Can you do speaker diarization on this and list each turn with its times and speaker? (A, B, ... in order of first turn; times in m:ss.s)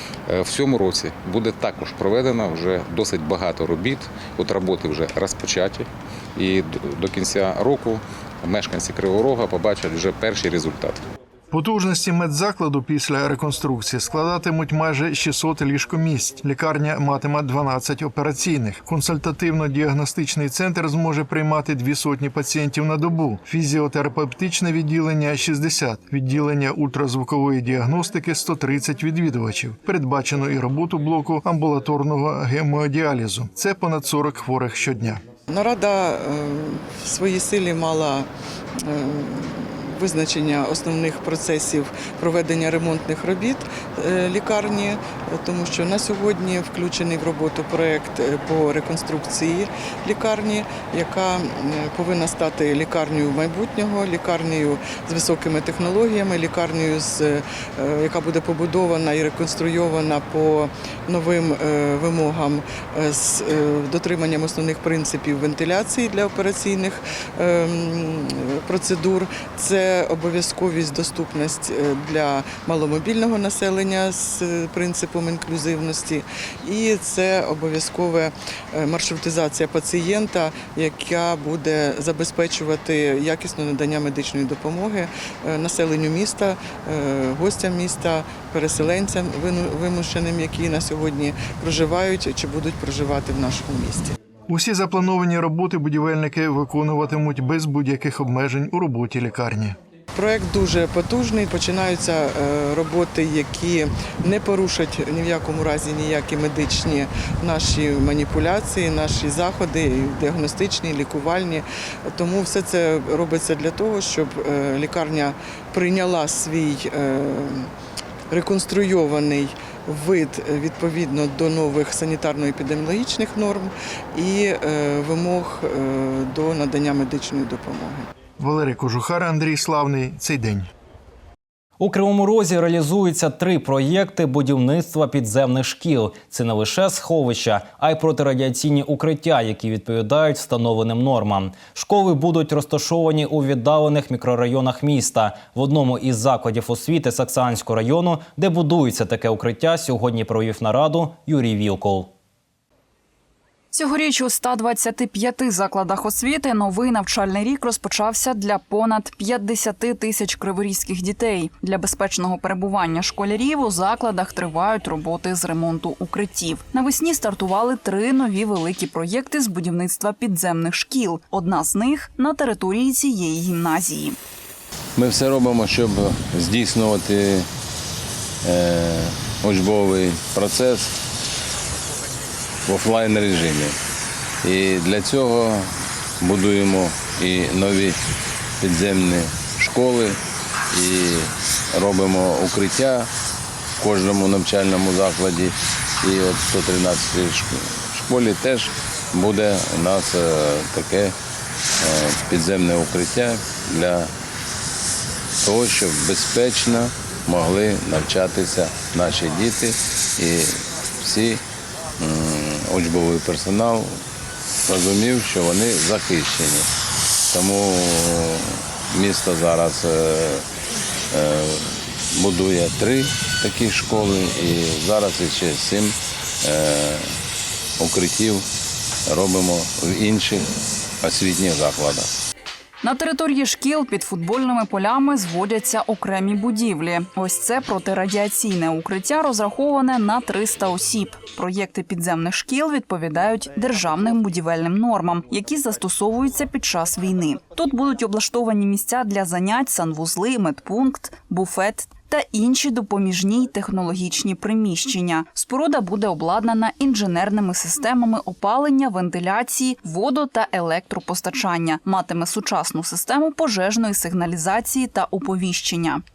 0:00.3-0:11.0 A
0:11.5-0:35.2 B
0:35.5-0:38.3 C
0:38.8-1:34.2 C
1:34.5-1:39.8 B
1:40.1-1:57.7 C
1:58.3-2:08.1 C
2:08.4-2:10.7 B
2:11.8-2:32.1 D
2:33.7-2:54.2 E
2:55.0-2:57.5 F
2:58.4-3:00.9 F
3:02.6-3:03.7 F
3:04.4-3:08.0 F
3:08.6-3:10.2 F
3:10.7-3:13.1 F
3:13.8-3:21.1 F
3:21.8-3:24.1 F
3:25.4-3:31.4 F
3:32.0-3:34.0 F
3:34.7-3:36.7 F
3:37.3-3:40.4 F
3:41.1-3:47.1 F
3:47.8-3:48.4 F
3:49.1-3:50.5 F
3:51.0-3:52.1 F
3:52.8-4:26.0 E